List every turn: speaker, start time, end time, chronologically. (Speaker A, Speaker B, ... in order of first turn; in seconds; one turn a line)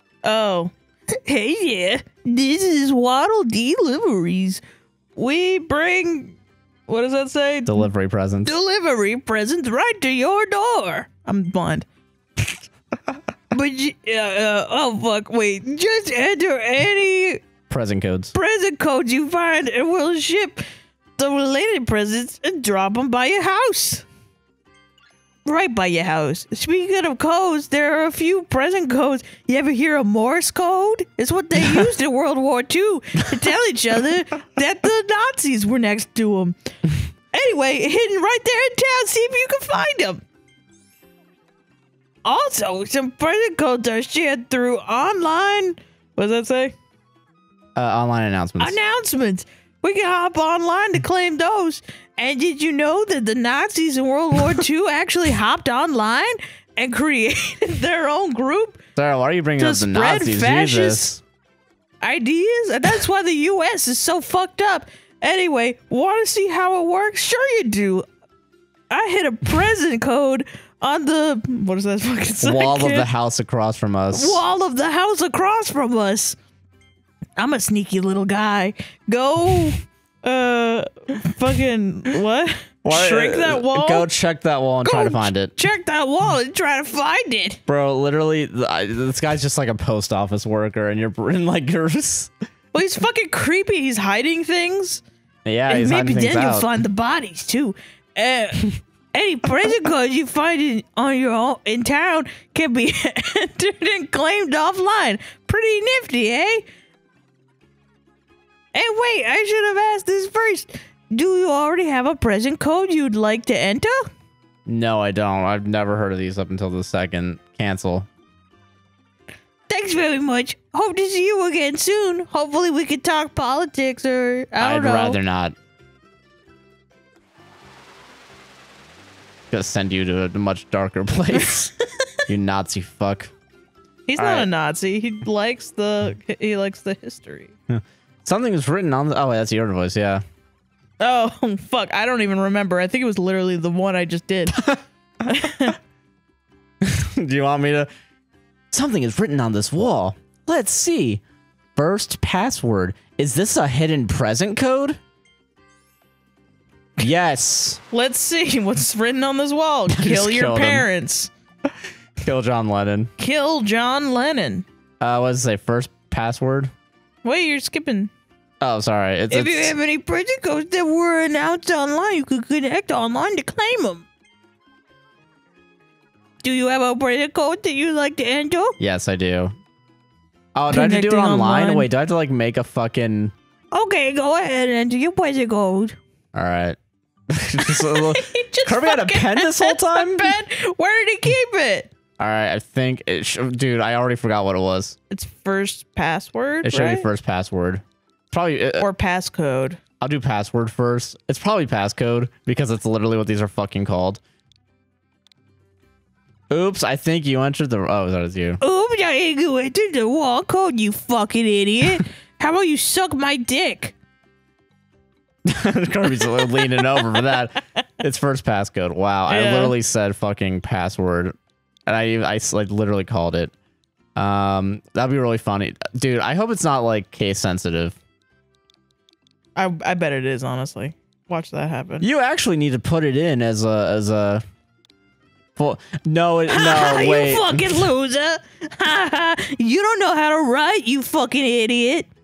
Speaker A: 0.2-4.6
Speaker A: 5.1-7.9
Speaker B: 7.7-8.6
Speaker A: 8.4-11.8
Speaker A: 13.5-17.4
Speaker B: 17.7-18.3
Speaker A: 18.3-20.6
Speaker A: 21.2-24.1
Speaker A: 25.4-36.5
Speaker A: 37.3-40.2
Speaker A: 42.2-46.8
Speaker B: 47.8-48.8
Speaker A: 48.6-58.8
Speaker B: 59.0-61.2
Speaker A: 59.6-61.1
Speaker A: 62.0-68.1
Speaker A: 68.9-73.1
Speaker B: 72.4-74.4
Speaker A: 74.1-76.4
Speaker A: 77.4-84.1
Speaker B: 82.8-85.5
Speaker A: 84.8-87.6
Speaker B: 87.7-92.3
Speaker A: 92.7-95.0
Speaker B: 95.4-96.8
Speaker A: 95.7-106.6
Speaker A: 108.7-114.1
Speaker B: 114.7-118.1
Speaker A: 119.7-125.2
Speaker B: 124.6-125.5
Speaker B: 129.5-131.7
Speaker B: 132.3-133.3
Speaker A: 134.1-137.5
Speaker B: 134.2-134.5
Speaker B: 137.7-140.2
Speaker A: 141.0-144.6
Speaker B: 144.5-144.8
Speaker A: 145.3-145.8
Speaker B: 145.4-145.7
Speaker B: 146.8-147.9
Speaker B: 148.7-151.2
Speaker B: 151.8-155.0
Speaker B: 157.0-157.8
Speaker A: 157.9-161.3
Speaker B: 159.9-160.8
Speaker B: 162.2-163.1
Speaker A: 163.2-164.7
Speaker B: 165.0-166.7
Speaker A: 167.2-168.1
Speaker B: 168.6-169.7
Speaker A: 169.3-174.1
Speaker A: 176.4-178.8
Speaker B: 178.8-179.5
Speaker B: 180.5-183.3
Speaker A: 180.7-181.9
Speaker A: 183.7-186.0
Speaker B: 186.3-186.8
Speaker B: 187.3-190.3
Speaker A: 187.6-191.9
Speaker B: 192.2-195.0
Speaker A: 195.1-197.1
Speaker B: 196.6-198.9
Speaker A: 198.8-199.8
Speaker B: 200.0-204.2
Speaker B: 206.5-208.6
Speaker A: 208.6-213.9
Speaker B: 215.4-221.3
Speaker A: 216.2-217.1
Speaker A: 219.3-219.7
Speaker B: 221.9-223.5
Speaker B: 224.2-228.0
Speaker A: 229.6-232.1
Speaker B: 232.0-234.4
Speaker B: 235.6-237.9
Speaker A: 236.5-242.1